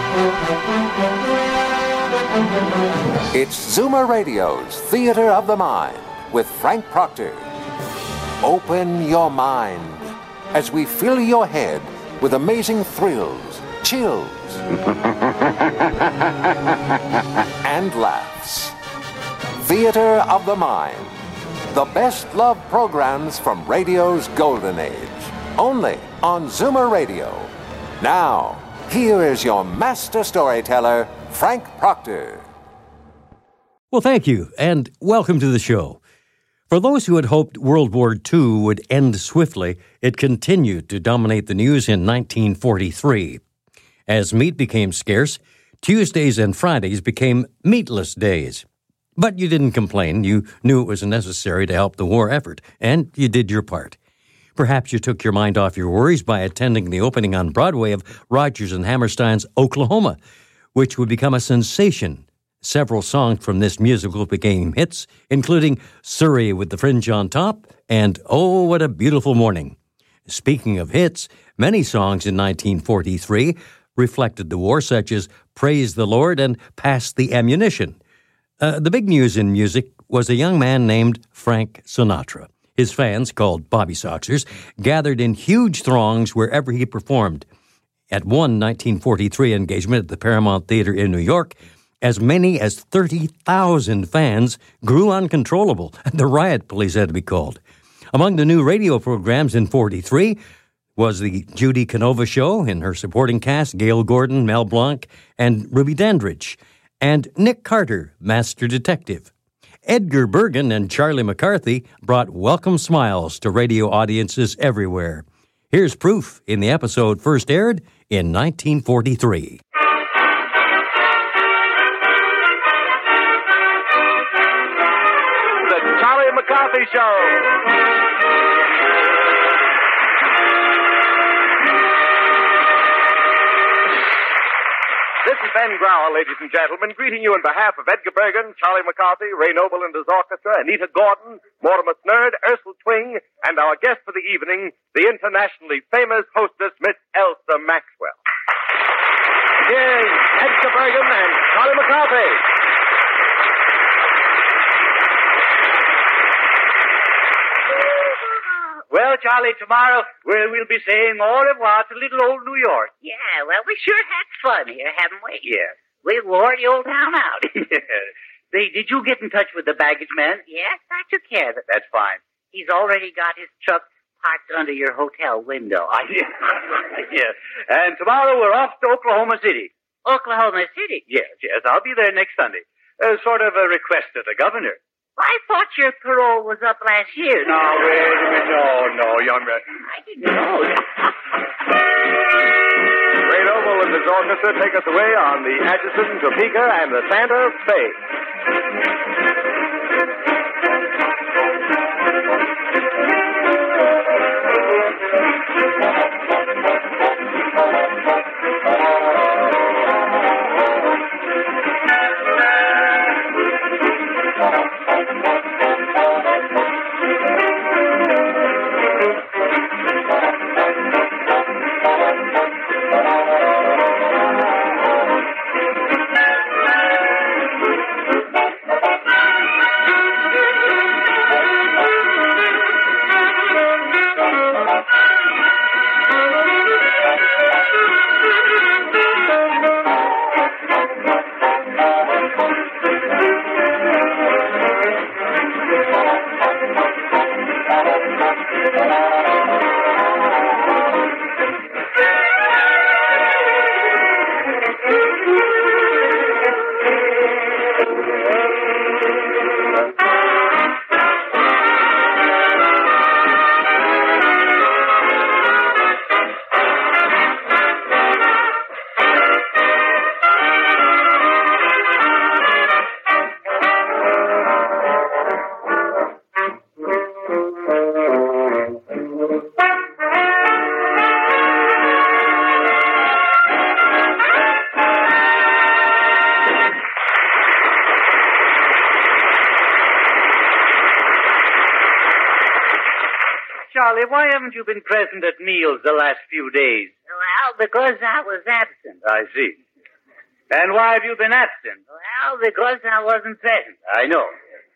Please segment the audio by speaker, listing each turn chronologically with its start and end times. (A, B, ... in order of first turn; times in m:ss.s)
0:03.3-0:07.5 A
0:08.4-0:14.6 A
0:17.6-0:18.8 A
0:19.6-0:21.2 A
0:21.7-0:32.5 A
0:33.9-0:36.0 B
0:36.7-0:43.4 B
0:44.1-0:48.6 B
0:49.2-0:54.0 B
0:54.6-1:00.2 B
1:00.8-1:09.8 B
1:10.3-1:18.0 B
1:18.6-1:27.5 B
1:28.1-1:37.6 B
1:38.1-1:40.4 B
1:41.0-1:49.3 B
1:49.9-1:59.6 B
2:05.6-2:07.6 C
2:15.2-2:28.2 C
2:29.6-2:32.5 C
2:38.9-2:42.9 D
2:43.0-2:45.5 E
2:45.4-2:45.7 D
2:46.0-2:47.6 E
2:47.7-2:50.4 D
2:50.4-2:51.6 E
2:51.7-2:52.2 D
2:52.5-2:55.9 E
2:56.0-2:59.7 D
3:00.0-3:01.0 E
3:01.1-3:04.8 D
3:05.2-3:07.6 E
3:07.4-3:09.6 D
3:09.8-3:11.1 E
3:13.2-3:18.0 C
4:53.7-4:56.9 D
4:57.1-4:58.9 E
4:59.0-4:59.6 D
5:00.5-5:01.8 D
5:01.9-5:03.7 E
5:03.8-5:04.3 D